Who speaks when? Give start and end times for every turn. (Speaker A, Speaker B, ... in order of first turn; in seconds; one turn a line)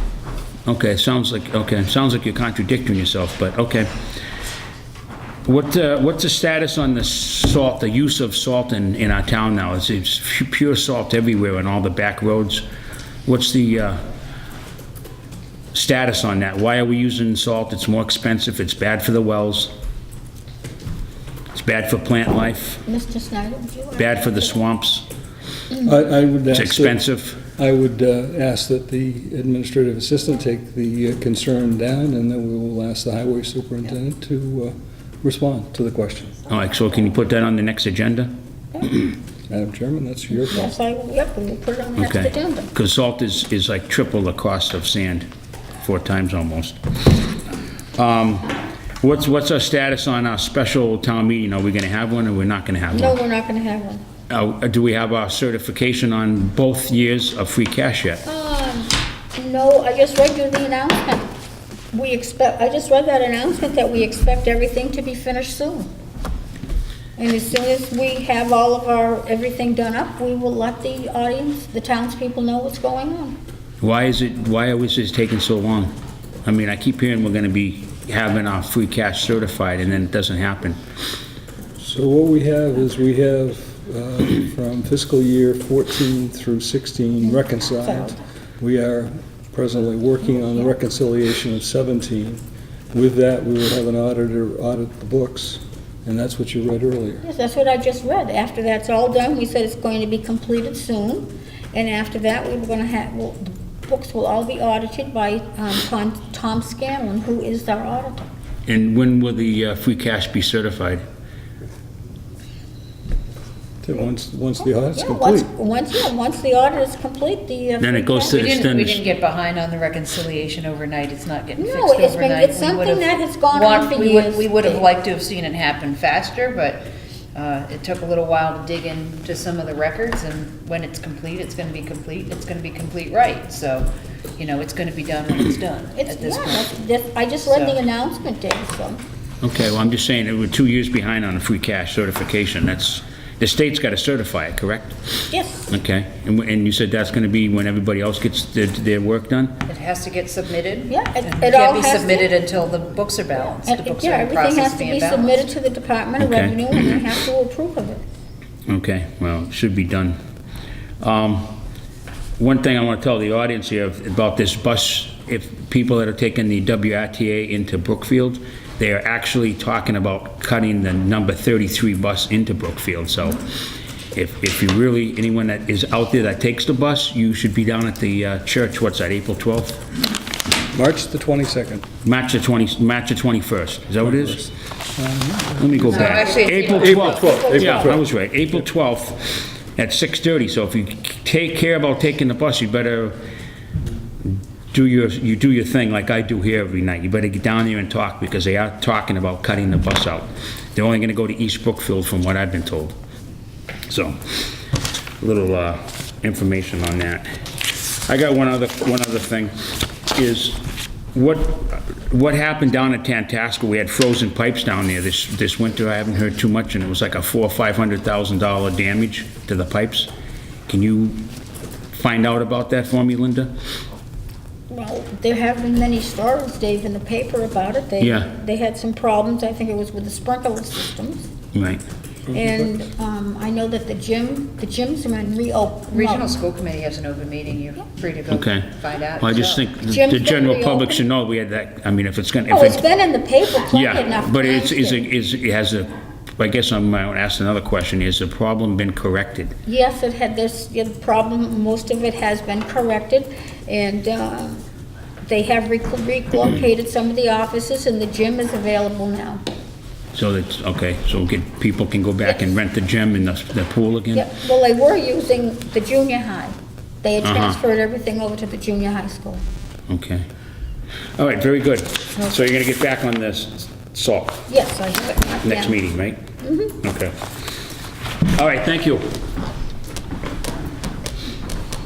Speaker A: 0.7-3.9
Speaker A: 5.4-12.6
Speaker A: 13.2-14.0
Speaker A: 15.7-19.7
Speaker A: 21.5-22.8
Speaker B: 22.9-24.6
Speaker A: 24.0-25.0
Speaker C: 25.8-36.5
Speaker A: 26.5-27.4
Speaker A: 36.5-39.0
Speaker C: 39.5-40.7
Speaker B: 40.5-42.7
Speaker A: 42.0-45.3
Speaker A: 45.8-46.8
Speaker A: 48.0-53.2
Speaker B: 52.9-54.0
Speaker A: 54.3-58.2
Speaker B: 58.2-61.2
Speaker B: 61.9-65.9
Speaker B: 67.2-73.4
Speaker A: 73.8-75.9
Speaker A: 76.4-80.8
Speaker C: 81.8-97.2
Speaker B: 87.2-88.2
Speaker B: 97.2-108.2
Speaker A: 108.7-111.0
Speaker C: 113.8-115.5
Speaker B: 114.9-118.4
Speaker A: 117.8-119.0
Speaker D: 118.3-136.7
Speaker B: 121.6-124.8
Speaker B: 135.9-139.0
Speaker D: 137.4-137.8
Speaker A: 139.4-145.0
Speaker B: 145.3-145.7
Speaker A: 145.7-149.6
Speaker D: 149.7-155.4
Speaker B: 150.9-152.3
Speaker B: 153.6-158.0
Speaker A: 156.2-157.0
Speaker A: 158.7-160.2
Speaker A: 161.0-161.6
Speaker A: 162.4-173.4
Speaker A: 174.1-179.8
Speaker C: 180.7-181.8
Speaker A: 182.0-184.5
Speaker C: 184.0-186.2
Speaker A: 185.6-193.2
Speaker D: 185.8-187.4
Speaker B: 186.3-187.9
Speaker C: 186.7-188.0
Speaker A: 194.2-202.9
Speaker A: 203.9-204.4
Speaker A: 205.2-207.2
Speaker A: 208.1-209.5
Speaker A: 210.1-220.1
Speaker A: 220.7-221.2
Speaker A: 221.9-223.5
Speaker B: 224.7-231.3
Speaker A: 228.0-228.3
Speaker A: 231.5-231.8
Speaker B: 232.3-236.3
Speaker D: 235.9-239.6
Speaker A: 238.3-238.7
Speaker A: 239.2-242.8
Speaker B: 239.9-241.0
Speaker B: 242.5-245.1
Speaker A: 243.7-249.5
Speaker B: 249.7-254.6
Speaker B: 255.2-259.4
Speaker A: 260.1-264.3
Speaker B: 264.1-269.4
Speaker A: 267.2-267.6
Speaker A: 269.9-270.2
Speaker A: 271.2-274.5
Speaker B: 274.5-275.8
Speaker A: 275.4-276.2
Speaker B: 276.4-276.8
Speaker A: 276.8-277.1
Speaker A: 278.3-279.2